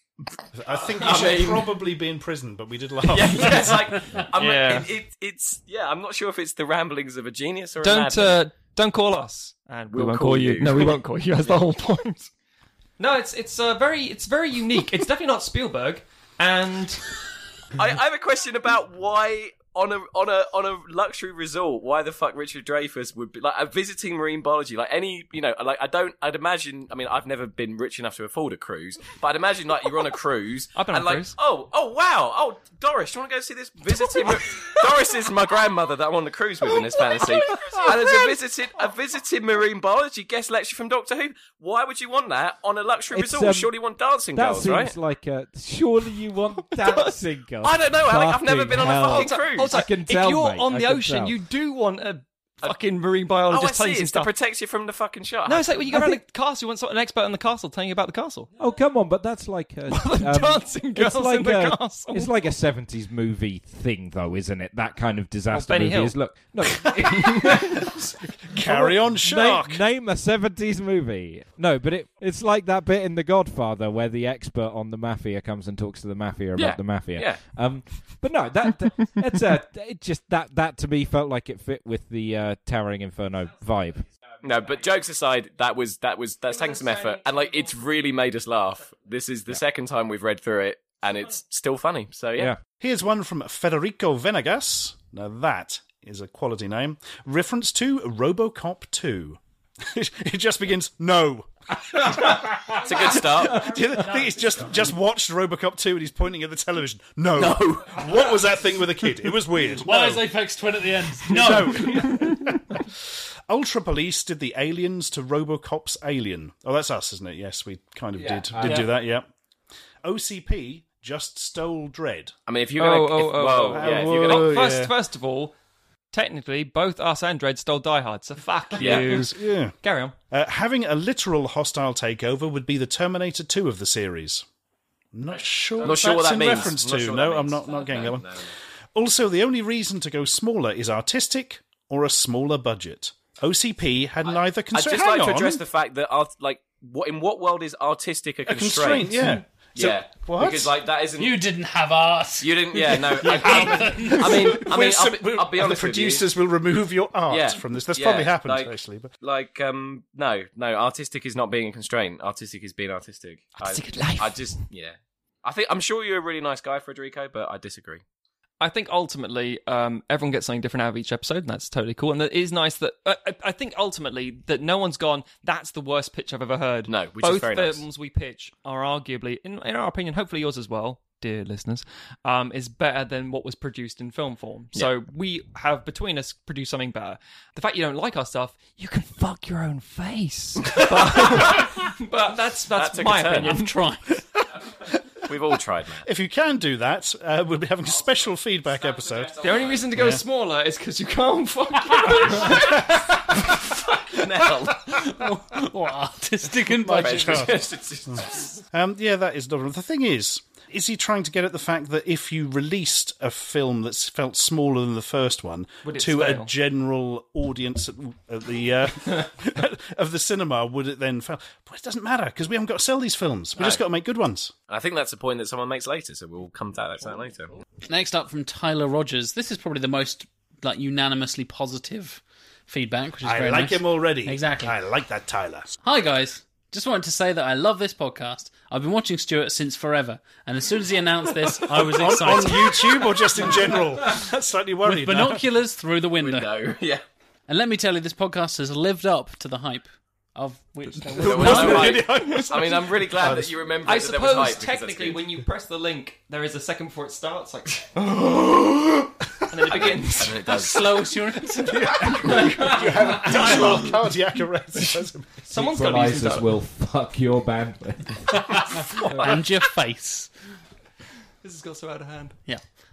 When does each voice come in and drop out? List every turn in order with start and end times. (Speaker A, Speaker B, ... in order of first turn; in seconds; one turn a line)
Speaker A: 0.5-4.0
Speaker B: 1.0-1.8
Speaker B: 3.1-8.4
Speaker C: 4.3-4.9
Speaker C: 7.8-12.3
Speaker B: 9.9-11.0
Speaker C: 13.0-17.1
Speaker B: 17.7-44.9
Speaker C: 30.7-31.4
Speaker C: 37.1-38.1
Speaker D: 43.1-43.7
Speaker D: 44.3-51.3
Speaker C: 46.8-47.1
Speaker B: 47.6-49.8
Speaker C: 48.7-54.3
Speaker B: 53.5-55.9
Speaker C: 55.4-58.5
Speaker D: 55.9-56.2
Speaker D: 58.6-68.0
Speaker C: 59.9-62.3
Speaker C: 65.5-66.1
Speaker A: 68.5-69.8
Speaker D: 68.6-84.1
Speaker B: 76.5-77.4
Speaker B: 84.4-92.5
Speaker A: 92.7-110.3
Speaker D: 102.1-102.5
Speaker B: 102.8-103.7
Speaker E: 103.9-104.6
Speaker B: 107.3-108.3
Speaker E: 109.8-112.3
Speaker A: 111.3-112.9
Speaker C: 111.5-112.1
Speaker A: 113.5-119.3
Speaker D: 118.1-118.9
Speaker E: 118.6-118.9
Speaker A: 120.0-122.3
Speaker B: 122.5-124.6
Speaker C: 122.8-125.5
Speaker A: 123.5-124.9
Speaker C: 126.1-130.1
Speaker B: 128.8-129.2
Speaker A: 128.8-129.8
Speaker A: 130.3-134.4
Speaker A: 135.1-145.6
Speaker B: 135.8-138.5
Speaker B: 144.7-151.4
Speaker A: 148.4-150.8
Speaker E: 151.2-154.6
Speaker B: 152.4-156.3
Speaker A: 153.0-159.1
Speaker B: 157.3-168.0
Speaker C: 163.6-164.5
Speaker C: 168.6-193.7
Speaker B: 176.9-177.8
Speaker B: 190.8-191.7
Speaker B: 192.7-193.5
Speaker E: 193.4-194.2
Speaker B: 195.3-196.1
Speaker A: 196.0-200.2
Speaker C: 199.4-203.2
Speaker B: 203.7-205.1
Speaker E: 204.6-207.7
Speaker A: 206.9-207.4
Speaker B: 206.9-208.6
Speaker A: 208.1-224.5
Speaker C: 215.8-216.5
Speaker B: 223.6-223.8
Speaker B: 224.7-227.5
Speaker E: 227.9-234.8
Speaker A: 233.2-235.8
Speaker E: 235.8-243.8
Speaker A: 241.9-245.4
Speaker E: 244.8-246.7
Speaker B: 246.2-247.0
Speaker E: 247.5-252.5
Speaker C: 251.0-253.0
Speaker B: 251.2-255.2
Speaker A: 253.2-253.6
Speaker C: 253.8-260.9
Speaker B: 259.6-261.0
Speaker E: 260.4-262.8
Speaker A: 261.6-265.4
Speaker C: 262.0-263.9
Speaker C: 265.5-266.5
Speaker D: 265.5-269.4
Speaker E: 268.4-270.3
Speaker C: 271.4-272.4